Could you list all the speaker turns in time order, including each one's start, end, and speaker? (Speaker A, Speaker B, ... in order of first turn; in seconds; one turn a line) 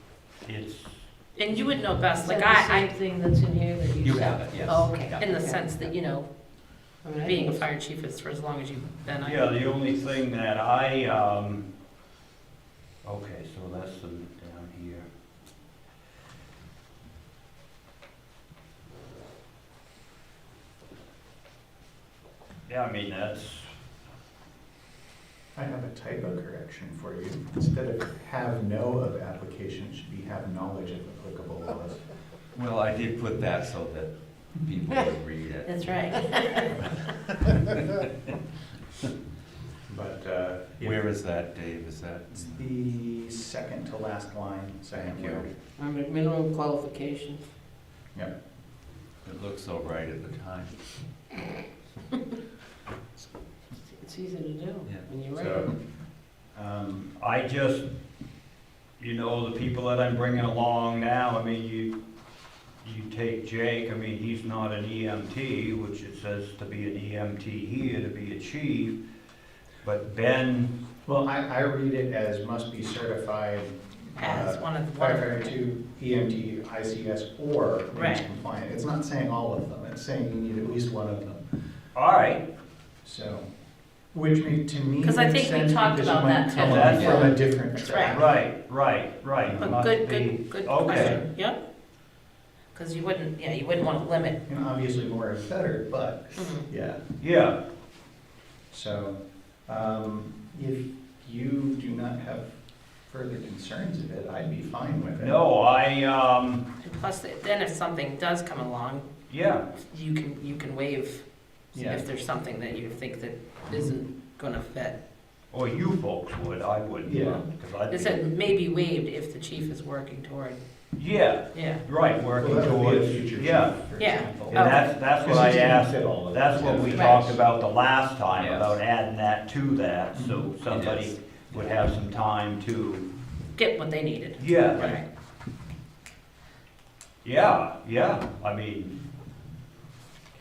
Speaker A: 0.4-1.0
Speaker B: 1.4-2.9
Speaker C: 2.2-5.6
Speaker D: 4.0-5.9
Speaker B: 5.0-9.5
Speaker C: 7.0-7.6
Speaker A: 9.2-11.7
Speaker A: 13.0-15.1
Speaker A: 22.7-23.7
Speaker E: 25.6-32.0
Speaker D: 32.5-36.1
Speaker B: 35.6-36.8
Speaker D: 37.7-38.1
Speaker E: 39.9-41.1
Speaker D: 40.8-42.6
Speaker E: 42.3-45.5
Speaker D: 45.0-45.4
Speaker C: 45.8-47.5
Speaker D: 49.2-50.8
Speaker C: 53.9-55.6
Speaker E: 55.3-55.8
Speaker E: 56.5-57.1
Speaker A: 57.2-57.9
Speaker A: 59.0-62.0
Speaker A: 62.8-69.0
Speaker A: 69.8-70.7
Speaker E: 71.1-81.4
Speaker B: 74.2-75.5
Speaker B: 77.9-78.3
Speaker A: 82.0-82.5
Speaker E: 83.0-83.5
Speaker E: 84.1-88.3
Speaker B: 85.0-88.3
Speaker A: 86.6-87.4
Speaker D: 86.7-87.2
Speaker A: 88.0-91.2
Speaker E: 89.4-89.8
Speaker B: 89.6-91.6
Speaker E: 90.9-91.2
Speaker B: 92.7-94.4
Speaker E: 94.5-97.0
Speaker B: 96.4-96.7
Speaker A: 97.2-97.6
Speaker E: 98.7-105.4
Speaker A: 105.2-106.7
Speaker B: 106.8-109.1
Speaker A: 109.3-109.7
Speaker B: 109.8-115.0
Speaker E: 111.7-112.0
Speaker A: 115.5-118.2
Speaker E: 117.0-117.4
Speaker B: 117.9-120.6
Speaker A: 121.0-123.8
Speaker B: 121.5-121.8
Speaker E: 122.4-127.4
Speaker B: 124.0-124.9
Speaker A: 124.5-133.1
Speaker B: 126.9-127.4
Speaker D: 128.4-128.8
Speaker E: 130.1-130.5
Speaker D: 130.7-131.7
Speaker B: 133.6-135.1
Speaker A: 134.4-135.0
Speaker A: 137.2-138.9